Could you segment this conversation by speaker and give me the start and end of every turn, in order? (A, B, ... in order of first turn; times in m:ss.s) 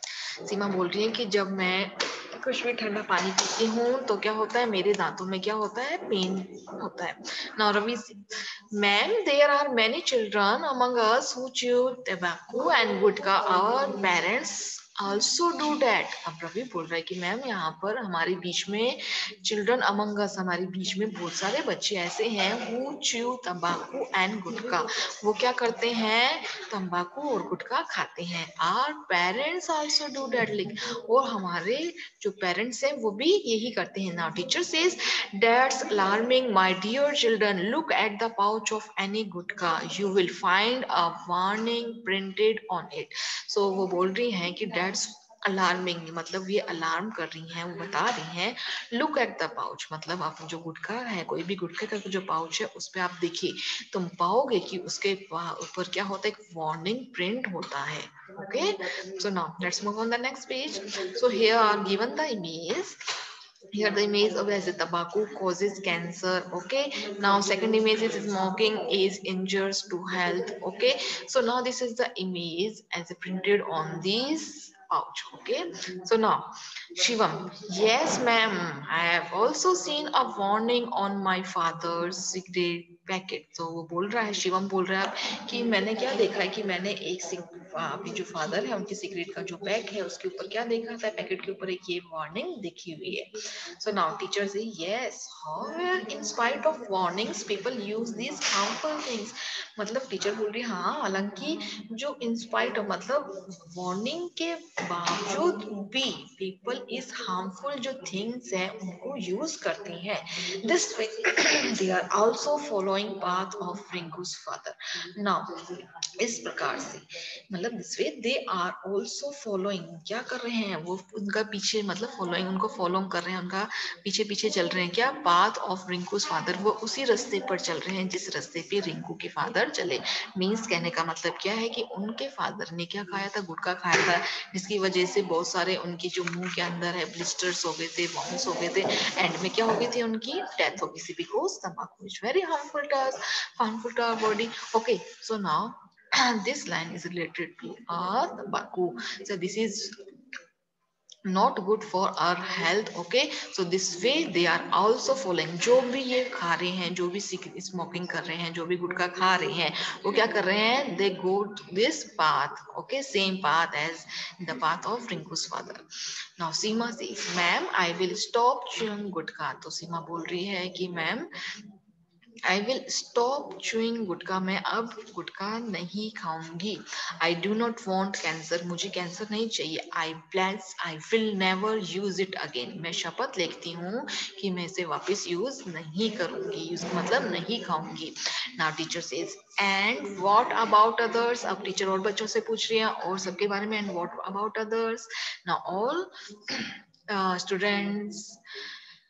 0:00.4-1:03.0 A
1:03.7-2:30.0 A
2:31.2-2:45.8 A
2:46.4-2:51.3 A
2:52.4-3:18.4 A